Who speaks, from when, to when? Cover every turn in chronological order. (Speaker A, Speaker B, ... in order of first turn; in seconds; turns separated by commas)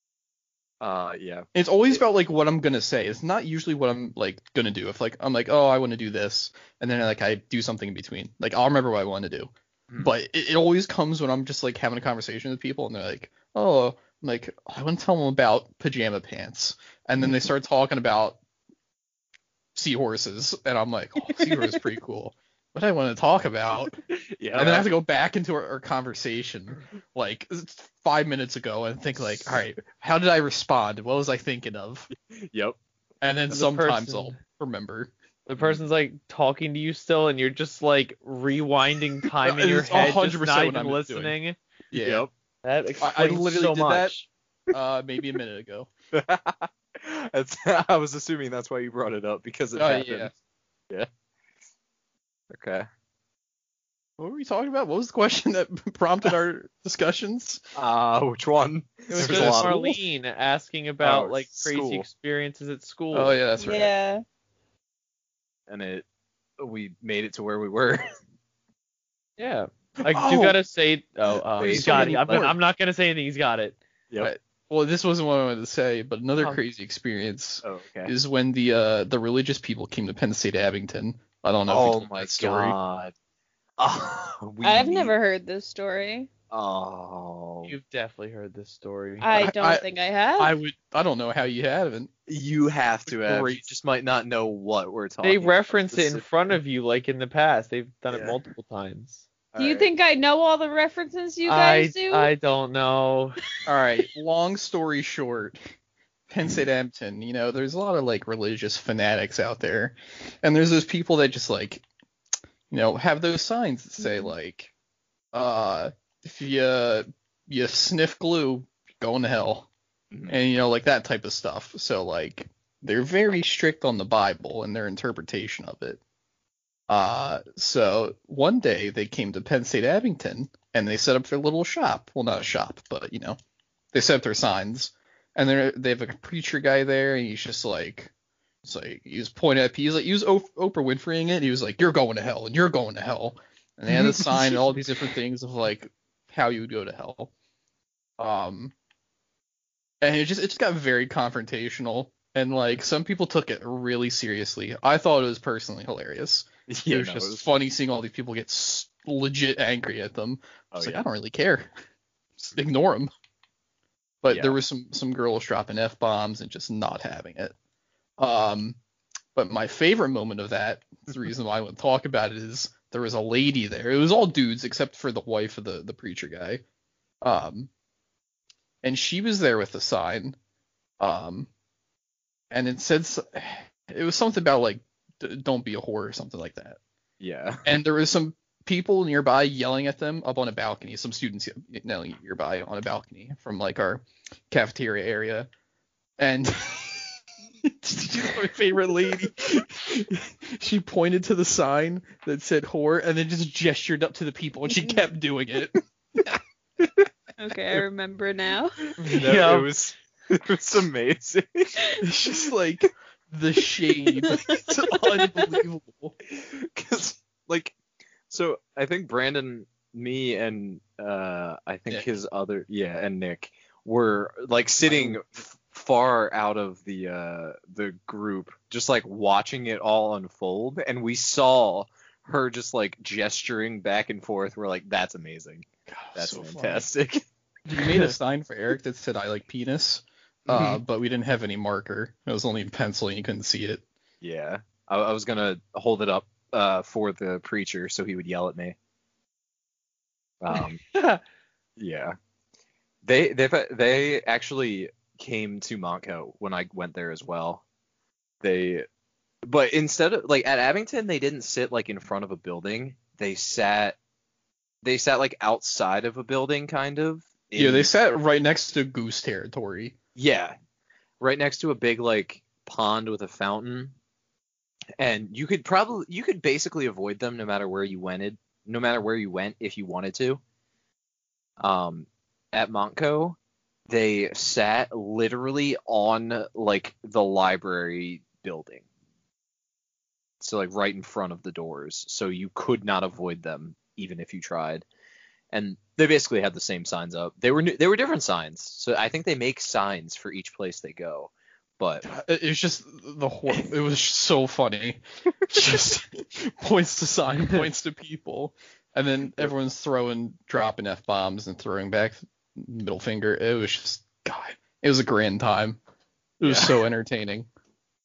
Speaker A: 0.8-2.0, Speaker B: 1.5-9.5, Speaker B: 10.0-18.4, Speaker B: 19.7-23.9, Speaker A: 24.1-24.9, Speaker B: 24.5-32.1, Speaker A: 32.3-32.8, Speaker B: 33.2-35.1, Speaker C: 33.5-34.4, Speaker C: 35.5-41.6, Speaker B: 39.4-41.3, Speaker B: 41.9-42.2, Speaker A: 41.9-42.3, Speaker C: 42.6-44.3, Speaker B: 43.0-44.1, Speaker B: 44.7-45.9, Speaker A: 46.1-50.3, Speaker B: 49.8-50.3, Speaker A: 52.5-52.9, Speaker B: 54.2-57.6, Speaker A: 57.7-59.9, Speaker B: 59.1-59.9, Speaker C: 59.1-63.4, Speaker A: 61.0-62.0, Speaker B: 63.1-63.9, Speaker D: 63.6-64.2, Speaker A: 65.7-66.0, Speaker A: 66.6-68.0, Speaker C: 69.4-73.8, Speaker B: 70.1-70.6, Speaker A: 71.6-72.5, Speaker B: 71.6-72.5, Speaker B: 74.2-82.7, Speaker A: 77.6-78.1, Speaker A: 81.7-83.1, Speaker A: 83.8-85.1, Speaker D: 84.6-86.3, Speaker A: 86.5-87.7, Speaker C: 87.7-89.3, Speaker D: 89.2-90.5, Speaker B: 89.3-89.8, Speaker B: 90.4-92.1, Speaker A: 92.3-96.5, Speaker B: 93.1-93.7, Speaker C: 95.2-99.2, Speaker A: 99.5-99.9, Speaker D: 99.6-102.3, Speaker C: 101.5-103.4, Speaker B: 103.7-105.6, Speaker B: 106.3-111.8, Speaker B: 112.7-114.7, Speaker D: 114.0-114.3, Speaker B: 115.3-119.7, Speaker A: 120.1-120.3, Speaker B: 120.3-126.0, Speaker B: 126.9-133.4, Speaker B: 133.9-138.1, Speaker B: 138.6-147.3, Speaker A: 143.9-144.4, Speaker B: 148.2-148.7, Speaker B: 150.0-161.7, Speaker A: 156.7-157.5, Speaker A: 160.7-161.0, Speaker B: 162.4-163.1, Speaker B: 164.2-167.5, Speaker B: 168.2-168.8, Speaker B: 169.3-176.6, Speaker B: 177.2-177.7, Speaker B: 178.8-180.3, Speaker B: 181.0-181.5, Speaker B: 182.5-186.8, Speaker A: 187.2-187.7, Speaker B: 187.6-195.5, Speaker B: 196.2-197.1, Speaker B: 197.6-206.4, Speaker D: 204.7-205.0, Speaker D: 207.4-208.8, Speaker C: 209.0-209.7, Speaker A: 209.1-211.8, Speaker B: 212.0-216.1, Speaker D: 214.1-214.7, Speaker A: 216.3-217.8, Speaker A: 218.3-237.2, Speaker B: 224.8-225.2, Speaker B: 235.9-236.8, Speaker B: 237.7-243.8, Speaker C: 237.7-238.1, Speaker A: 240.5-240.8, Speaker A: 244.2-248.8, Speaker A: 250.4-250.8, Speaker C: 250.5-251.2, Speaker A: 251.8-252.2, Speaker A: 253.0-257.6, Speaker A: 258.4-258.9, Speaker A: 259.4-264.0, Speaker A: 264.8-267.9, Speaker B: 267.6-269.9, Speaker A: 270.1-270.5, Speaker A: 271.2-273.9, Speaker A: 275.0-280.4, Speaker A: 281.6-283.4, Speaker A: 283.9-288.8, Speaker A: 290.4-294.8, Speaker A: 295.5-302.0, Speaker B: 302.0-315.8, Speaker B: 316.4-317.5, Speaker A: 316.4-316.8